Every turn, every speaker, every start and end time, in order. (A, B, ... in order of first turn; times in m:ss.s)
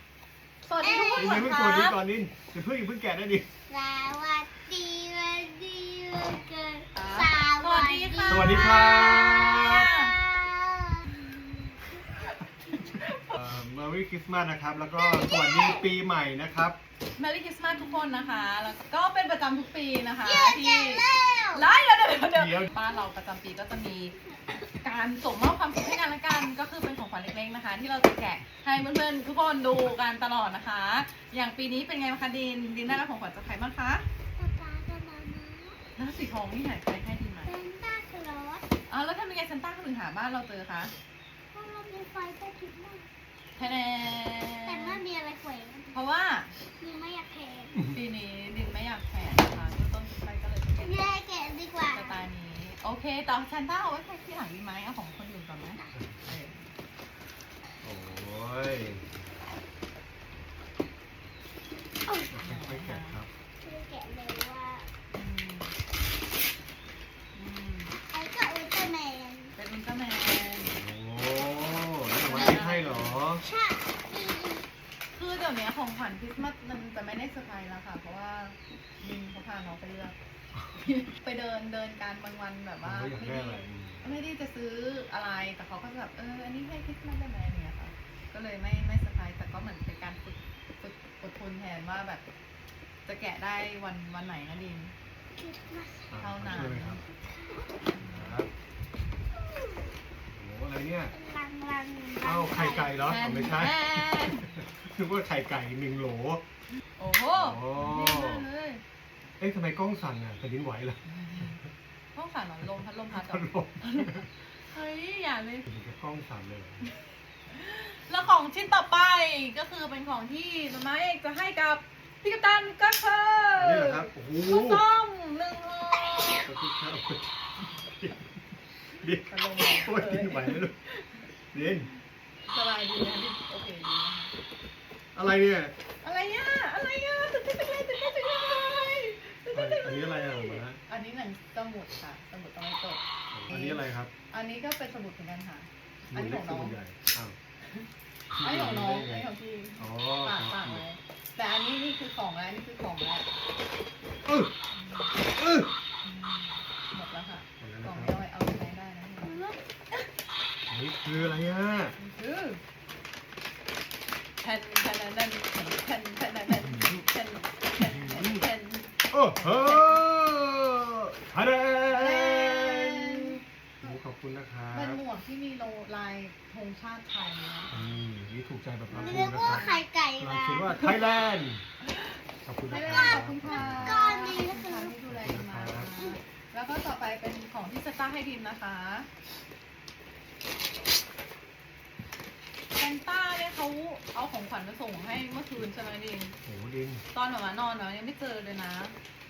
0:00.6-0:02.0 A
0:00.8-0:01.5 B
0:01.1-0:03.5 C
0:03.7-0:11.8 B
0:06.9-0:10.1 A
0:08.3-0:09.9 C
0:12.1-0:13.3 A
0:13.2-0:16.8 C
0:14.9-0:15.9 B
0:17.2-0:34.0 A
0:20.2-0:21.7 B
0:22.3-0:22.7 C
0:22.8-0:23.0 B
0:34.4-0:35.8 B
0:36.0-0:37.5 A
0:37.4-0:38.6 B
0:38.9-0:40.9 A
0:41.5-0:43.0 B
0:43.6-0:45.0 A
0:44.6-0:46.0 B
0:45.9-0:46.5 A
0:46.8-0:47.8 B
0:47.9-0:51.1 A
0:50.8-0:52.2 B
0:51.9-0:56.7 A
0:55.9-0:56.2 C
0:57.8-0:59.2 C
1:02.3-1:03.3 C
1:02.4-1:03.2 A
1:03.6-1:04.9 B
1:05.1-1:05.8 A
1:07.3-1:08.0 A
1:08.1-1:09.5 B
1:09.6-1:10.8 A
1:10.7-1:13.4 C
1:12.2-1:13.2 A
1:12.3-1:12.7 B
1:13.4-1:14.7 B
1:15.1-1:20.2 A
1:20.8-1:32.2 A
1:22.8-1:24.2 C
1:33.0-1:34.9 A
1:35.4-1:37.8 B
1:36.1-1:37.0 C
1:36.2-1:37.0 A
1:37.9-1:38.4 A
1:38.0-1:38.5 C
1:39.3-1:40.0 B
1:40.3-1:41.1 C
1:41.1-1:43.0 B
1:42.2-1:46.4 C
1:43.0-1:44.5 A
1:47.0-1:48.8 A
1:47.3-1:48.4 C
1:49.4-1:51.4 C
1:51.1-1:51.6 A
1:52.1-1:55.6 A
1:53.1-1:54.2 C
1:55.7-1:56.9 C
1:57.5-2:06.5 A
2:03.6-2:04.8 C
2:06.5-2:08.3 C
2:09.0-2:10.7 C
2:09.3-2:11.2 A
2:11.5-2:11.9 C
2:12.5-2:14.3 A
2:15.1-2:15.7 C
2:16.0-2:26.8 A
2:19.5-2:20.8 C
2:23.3-2:24.1 C
2:26.1-2:27.4 C
2:27.7-2:33.3 A
2:28.3-2:30.8 C
2:34.2-2:34.5 C
2:34.7-2:35.1 A
2:35.3-2:35.7 C
2:36.0-2:40.1 A
2:37.6-2:38.2 C
2:39.2-2:39.6 B
2:40.7-2:42.0 C
2:42.0-2:42.6 A
2:44.4-2:50.0 A
2:46.6-2:47.0 C
2:47.8-2:48.5 C
2:49.1-2:55.0 C
2:51.9-2:53.4 A
2:54.7-2:57.8 A
2:57.7-2:59.7 C
2:58.9-2:59.8 A
2:58.9-3:00.7 B
3:00.2-3:01.6 C
3:02.4-3:04.0 C
3:02.7-3:09.1 A
3:02.8-3:05.0 B
3:05.1-3:05.9 C
3:12.7-3:16.4 A
3:16.4-3:17.0 C
3:17.1-3:19.0 A